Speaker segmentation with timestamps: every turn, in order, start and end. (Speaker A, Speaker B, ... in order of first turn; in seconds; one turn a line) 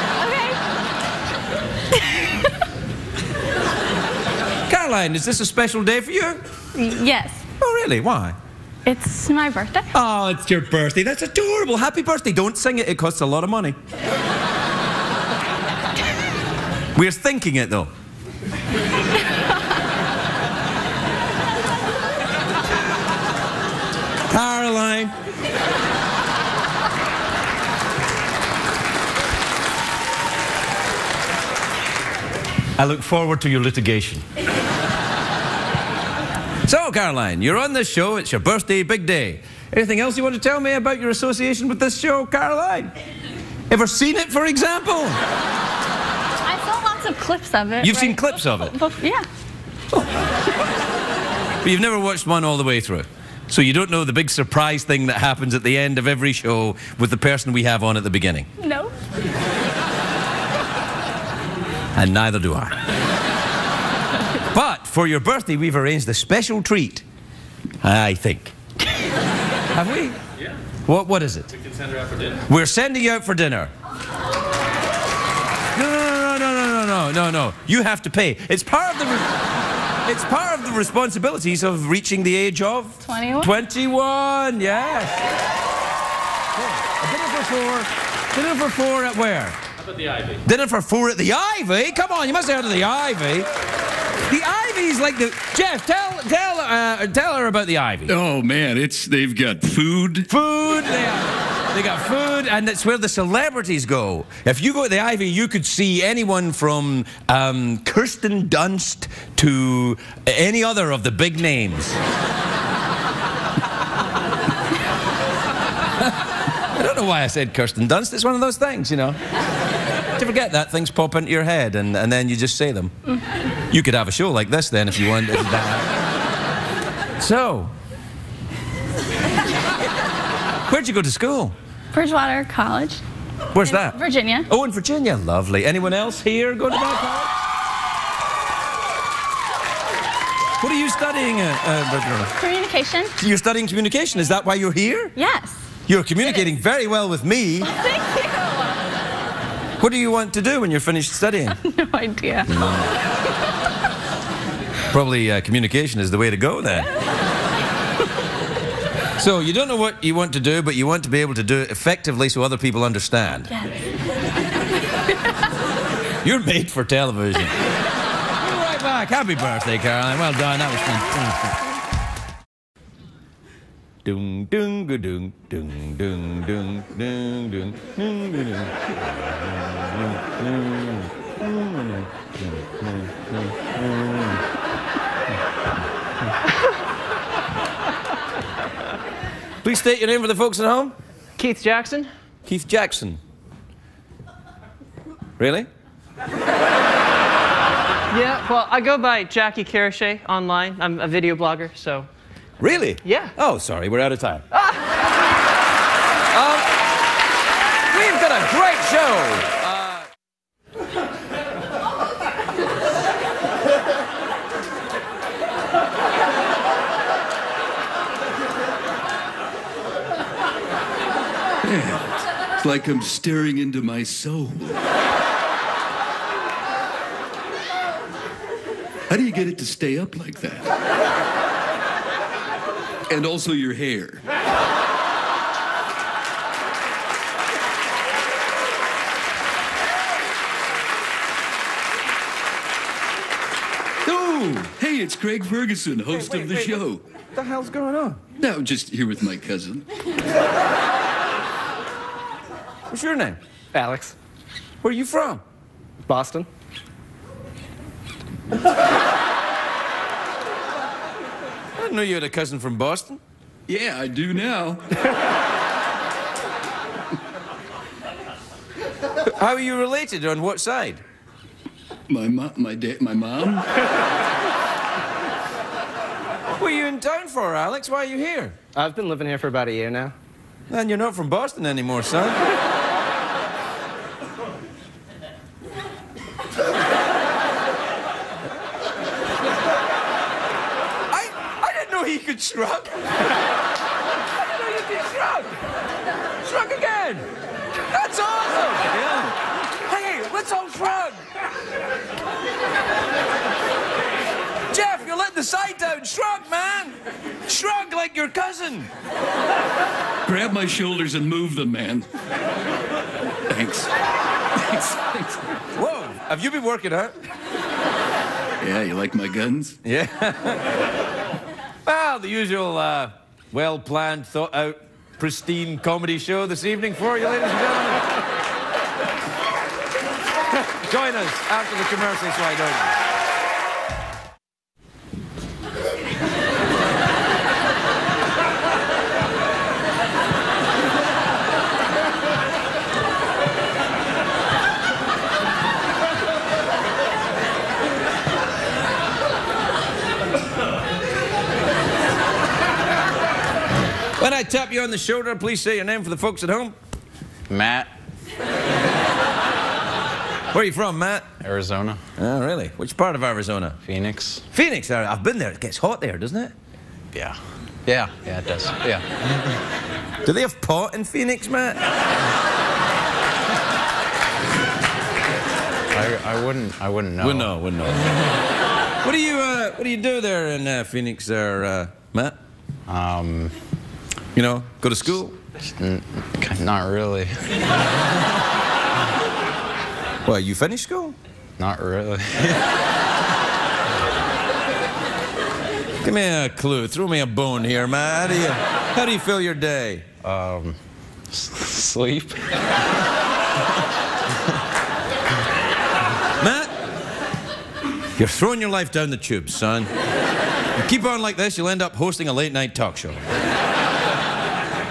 Speaker A: 0.2-0.6
Speaker B: 4.7-6.4
Speaker A: 6.7-7.4
Speaker B: 7.6-8.3
Speaker A: 8.8-9.9
Speaker B: 9.9-13.8
Speaker B: 16.9-17.9
Speaker B: 24.3-25.1
Speaker B: 32.8-34.2
Speaker B: 36.6-42.9
Speaker B: 43.7-45.2
Speaker A: 46.4-49.3
Speaker B: 47.8-48.8
Speaker B: 49.9-50.3
Speaker B: 51.6-58.5
Speaker A: 58.6-58.9
Speaker B: 61.9-62.7
Speaker B: 64.5-67.0
Speaker B: 67.8-68.5
Speaker B: 69.7-70.2
Speaker B: 70.8-71.5
Speaker B: 72.4-73.7
Speaker B: 75.7-79.3
Speaker B: 80.0-85.2
Speaker A: 83.0-83.5
Speaker B: 86.6-89.6
Speaker B: 90.4-93.5
Speaker B: 94.3-98.1
Speaker C: 98.1-100.3
Speaker B: 100.3-112.0
Speaker B: 116.0-119.2
Speaker B: 120.2-122.9
Speaker B: 123.7-125.9
Speaker B: 127.2-127.7
Speaker B: 130.7-131.5
Speaker A: 131.9-133.0
Speaker B: 133.5-137.3
Speaker A: 133.7-134.5
Speaker B: 140.6-142.3
Speaker A: 142.4-143.1
Speaker B: 143.2-145.1
Speaker A: 145.2-145.6
Speaker B: 145.9-147.7
Speaker B: 149.8-151.6
Speaker A: 151.6-152.5
Speaker B: 152.5-152.8
Speaker B: 154.9-156.9
Speaker B: 159.2-163.5
Speaker B: 166.2-167.6
Speaker B: 168.4-171.5
Speaker B: 174.0-184.4
Speaker B: 189.6-190.9
Speaker D: 191.3-192.1
Speaker B: 192.4-193.2
Speaker B: 195.4-195.7
Speaker D: 198.1-202.1
Speaker B: 202.6-204.4
Speaker D: 203.0-203.3
Speaker D: 204.5-204.8
Speaker B: 206.3-206.7
Speaker B: 207.9-210.1
Speaker C: 221.6-224.8
Speaker C: 229.1-230.7
Speaker C: 233.1-234.2
Speaker B: 244.0-244.7
Speaker C: 244.7-247.0
Speaker B: 246.3-246.8
Speaker B: 247.3-248.2
Speaker C: 248.4-249.9
Speaker B: 252.9-253.4
Speaker E: 253.7-254.1
Speaker B: 254.8-255.4
Speaker E: 256.1-256.5
Speaker B: 261.8-263.2
Speaker C: 263.7-264.8
Speaker B: 269.2-271.0
Speaker C: 272.1-273.6
Speaker B: 276.6-278.6
Speaker E: 278.7-280.1
Speaker B: 280.7-282.4
Speaker B: 291.1-293.1
Speaker B: 294.3-295.5
Speaker B: 296.4-297.3
Speaker B: 297.9-301.2
Speaker B: 304.7-308.9
Speaker C: 310.2-312.1
Speaker C: 313.5-313.9
Speaker C: 314.5-315.5
Speaker B: 315.8-317.1
Speaker C: 318.6-319.8
Speaker B: 319.8-320.6
Speaker B: 321.9-328.1
Speaker B: 330.5-332.9
Speaker B: 354.2-356.8
Speaker F: 357.5-357.9
Speaker B: 360.5-361.3
Speaker F: 361.4-362.0
Speaker B: 362.2-363.8
Speaker F: 363.8-364.4
Speaker B: 364.5-366.5
Speaker F: 367.1-369.4
Speaker B: 370.2-371.8
Speaker F: 375.9-377.5
Speaker B: 377.2-378.2
Speaker B: 379.0-382.4
Speaker F: 382.9-383.5
Speaker B: 384.3-385.4
Speaker F: 385.6-387.4
Speaker B: 390.2-391.1
Speaker F: 391.6-392.5
Speaker B: 396.0-400.0
Speaker F: 400.2-400.8
Speaker F: 401.3-402.5
Speaker B: 406.4-406.7
Speaker B: 408.2-409.9
Speaker B: 410.8-413.2